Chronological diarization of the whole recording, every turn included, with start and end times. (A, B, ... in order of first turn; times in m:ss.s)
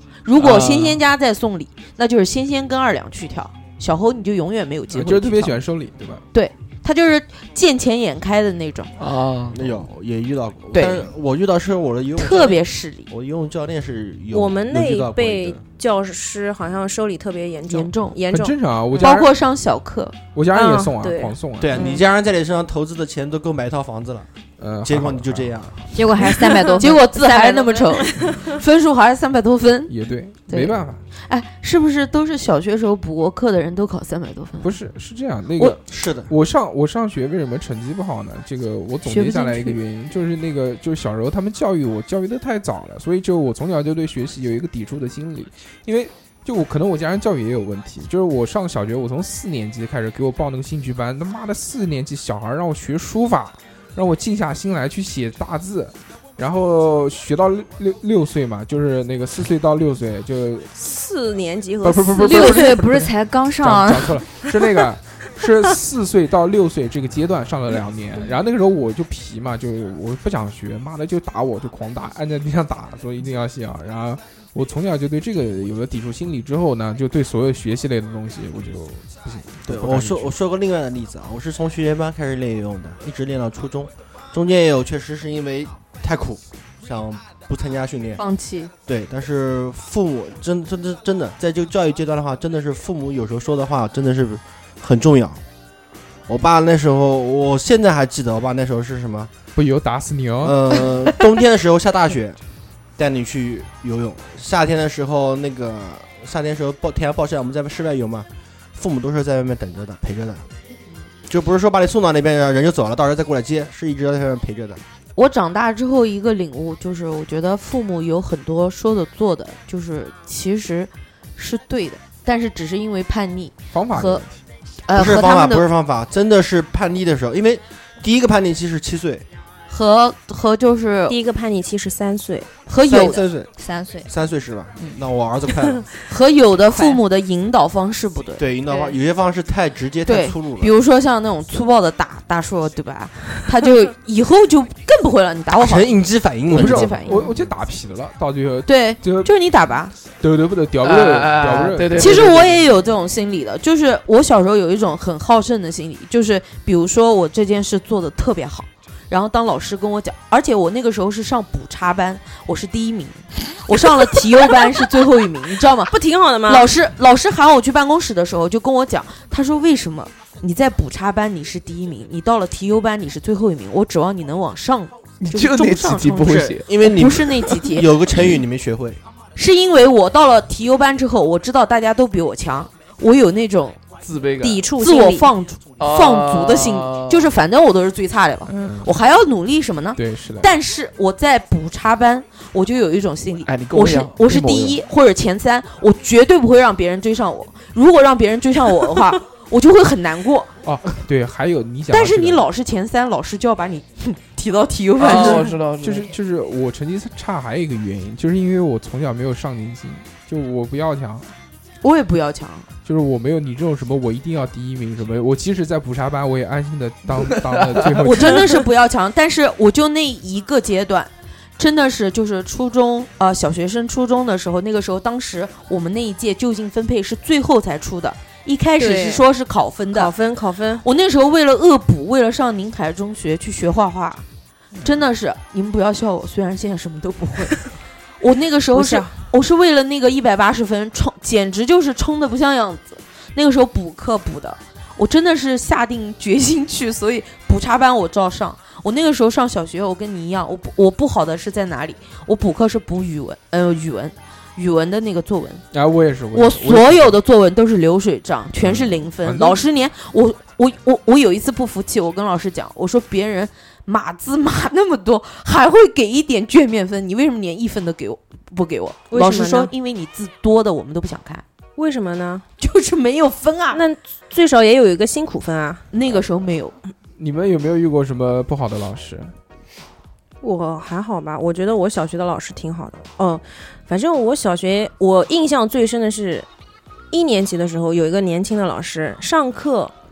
0:00.2-0:05.6 A
0:00.4-0:01.0 B
0:04.9-0:06.2 B
0:06.3-0:08.9 A
0:09.0-0:09.6 C
0:09.5-0:15.6 D
0:10.7-0:11.1 A
0:12.2-0:13.1 A
0:14.3-0:19.2 E
0:17.7-0:18.2 A
0:18.3-0:19.3 B
0:19.0-0:20.2 A
0:20.3-0:21.8 B
0:20.5-0:22.0 E
0:21.6-0:24.3 D
0:24.6-0:26.2 B
0:24.8-0:25.9 D
0:26.0-0:27.1 F
0:26.8-0:29.9 A
0:27.1-0:28.6 E
0:29.9-0:31.0 B
0:30.5-0:34.7 A
0:34.6-1:00.7 B
0:35.8-0:36.3 D
0:39.0-0:39.8 A
1:00.8-1:02.7 E
1:01.8-1:20.3 B
1:02.2-1:04.4 F
1:19.6-1:28.2 D
1:28.2-1:28.7 A
1:28.9-1:35.4 D
1:36.3-1:39.3 D
1:39.6-1:40.6 B
1:40.4-1:42.4 D
1:43.0-1:50.5 D
1:51.3-1:54.8 D
1:55.2-2:04.2 A
2:03.7-2:04.4 B
2:04.9-2:05.6 A
2:04.9-2:09.3 D
2:09.7-2:11.2 A
2:11.1-2:12.5 E
2:12.7-2:13.2 A
2:12.8-2:13.5 D
2:13.6-2:14.1 F
2:14.1-2:15.9 D
2:16.1-2:18.4 A
2:16.7-2:17.0 F
2:18.4-2:20.7 D
2:20.1-2:26.0 A
2:25.5-2:27.0 D
2:26.5-2:27.3 A
2:26.5-2:29.3 B
2:28.7-2:30.0 A
2:30.2-2:32.1 B
2:30.8-2:32.6 C
2:31.9-2:46.0 A
2:45.8-2:46.7 E
2:46.5-2:58.3 A
2:55.2-2:56.7 C
2:56.3-2:59.0 D
2:59.4-3:03.8 A
3:04.0-3:04.7 C
3:04.4-3:05.3 E
3:04.7-3:20.5 A
3:05.8-3:07.3 C
3:08.5-3:08.9 B
3:10.0-3:10.5 B
3:13.4-3:14.5 C
3:20.6-3:22.4 B
3:21.9-3:25.5 A
3:25.0-3:26.1 C
3:25.8-3:31.3 B
3:31.8-3:32.7 A
3:32.8-3:38.6 B
3:37.2-3:38.2 C
3:38.0-3:50.1 A
3:48.8-3:49.2 E
3:49.9-3:50.9 E
3:50.8-3:54.2 A
3:54.8-3:57.7 A
3:58.2-4:15.7 A
3:58.7-3:59.2 E
4:15.7-4:17.2 B
4:16.3-4:31.4 A
4:18.6-4:19.6 B
4:29.1-4:29.7 E
4:31.8-4:32.4 E
4:32.6-4:33.8 A
4:33.7-4:35.9 E
4:35.9-4:36.8 A
4:37.2-4:39.3 B
4:40.4-4:46.5 E
4:47.1-4:49.9 E